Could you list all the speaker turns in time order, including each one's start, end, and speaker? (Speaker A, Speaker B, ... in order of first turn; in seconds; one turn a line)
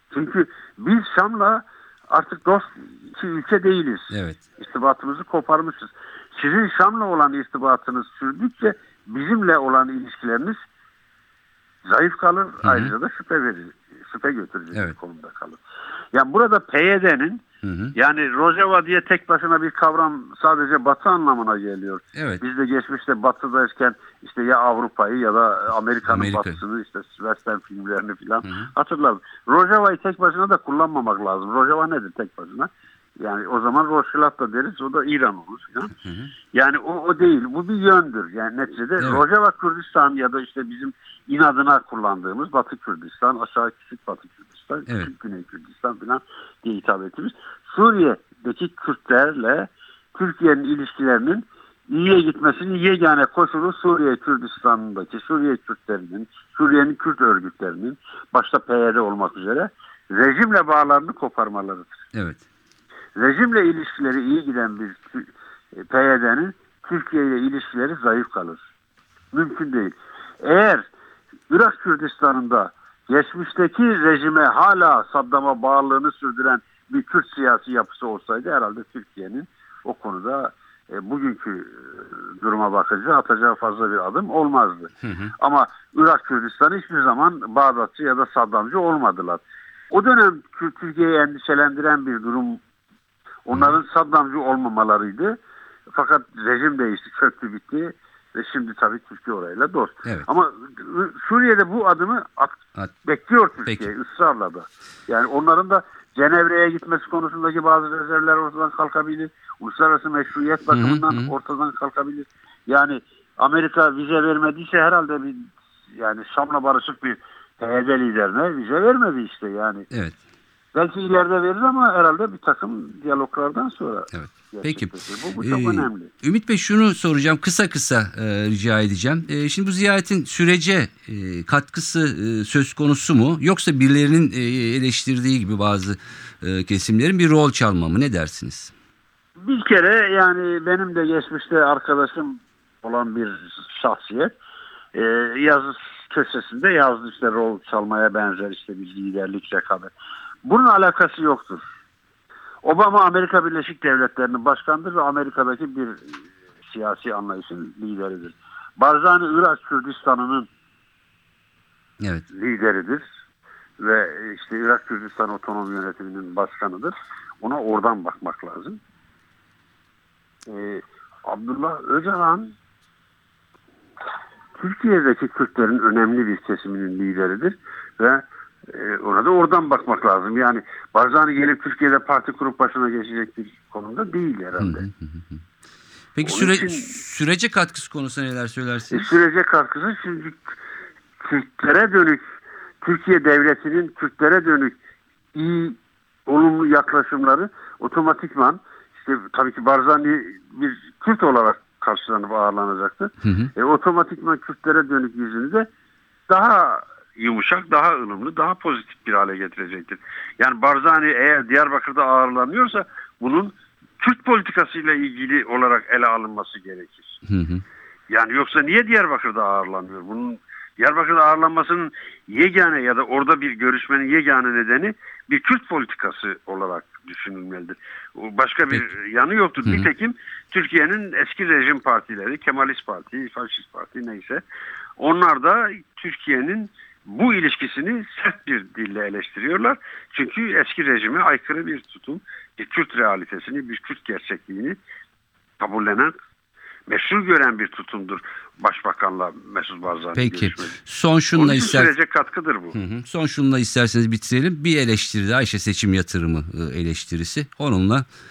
Speaker A: 0.1-10.6
Speaker B: 4.1-4.4
Speaker A: 11.9-15.6
Speaker B: 12.6-12.9
Speaker A: 16.1-17.4
Speaker B: 17.6-17.9
Speaker A: 17.9-35.9
Speaker B: 22.1-22.4
Speaker B: 26.1-26.6
Speaker B: 28.4-28.7
Speaker B: 36.0-36.3
Speaker A: 36.5-62.0
Speaker B: 39.0-39.2
Speaker B: 62.1-62.4
Speaker A: 63.2-68.6
Speaker A: 69.3-70.9
Speaker A: 71.5-92.6
Speaker B: 85.0-85.3
Speaker A: 93.5-95.4
Speaker A: 95.9-119.9
Speaker B: 110.7-111.3
Speaker B: 119.9-120.2
Speaker A: 120.8-126.1
Speaker B: 124.1-138.7
Speaker A: 139.4-144.3
Speaker A: 144.9-149.9
Speaker A: 150.4-151.6
Speaker A: 152.6-160.5
Speaker B: 162.0-162.3
Speaker A: 162.3-163.1
Speaker A: 163.8-168.8
Speaker A: 170.5-172.6
Speaker A: 174.6-184.9
Speaker B: 184.6-185.4
Speaker B: 186.2-189.1
Speaker A: 186.2-186.9
Speaker A: 188.9-190.6
Speaker A: 191.2-192.3
Speaker A: 192.8-194.8
Speaker A: 195.3-205.7
Speaker B: 203.2-203.5
Speaker A: 206.3-217.2
Speaker B: 217.3-217.6
Speaker A: 218.1-234.4
Speaker A: 235.0-244.8
Speaker A: 245.6-246.1
Speaker A: 246.9-250.8
Speaker B: 250.2-251.9
Speaker A: 251.3-252.8
Speaker B: 252.8-258.1